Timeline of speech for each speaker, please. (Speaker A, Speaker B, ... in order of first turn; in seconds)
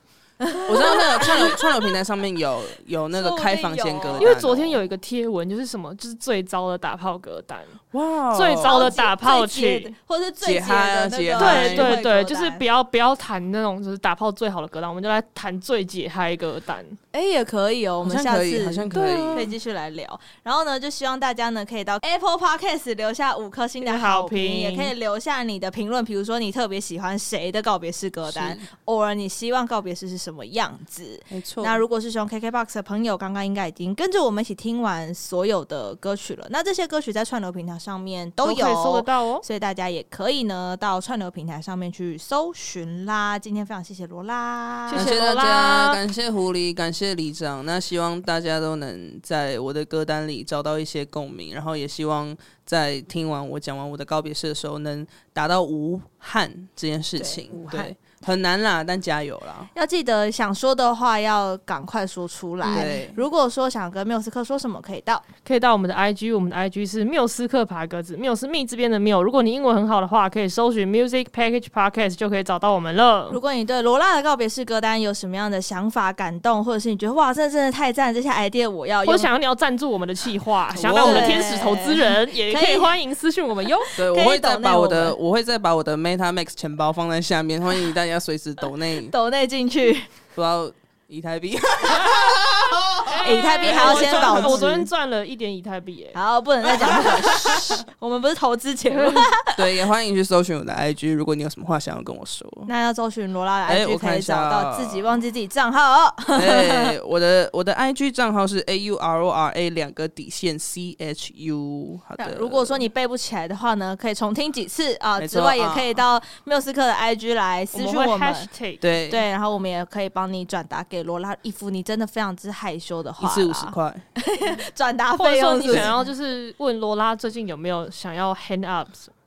Speaker A: 0.4-2.0, 3.1-4.3, 8.6-12.6, 17.1-45.1, 57.2-57.9, 59.7-65.3, 73.3-79.3, 80.8-83.0, 83.8-85.2, 89.1-90.1, 93.2-94.9, 96.1-99.6, 102.7-106.9, 112.2-118.5, 119.1-126.0
Speaker B: 0.6-4.8, 7.9-8.9, 10.4-12.0, 18.0-19.5, 28.3-28.7, 31.3-31.8, 44.9-59.7, 62.7-63.2, 80.7-81.5, 84.0-89.1, 90.3-94.7, 97.0-97.6, 99.5-102.7, 103.7-105.1, 106.3-112.8, 115.2-116.0, 118.8-119.2, 123.2-124.0
Speaker C: 4.2-9.9, 11.4-17.0, 18.9-19.5, 23.8-24.9, 38.4-39.4, 44.9-46.0, 62.6-62.9, 65.5-73.4, 79.0-84.0, 93.0-96.2, 98.9-99.3, 117.7-118.9, 125.2-129.1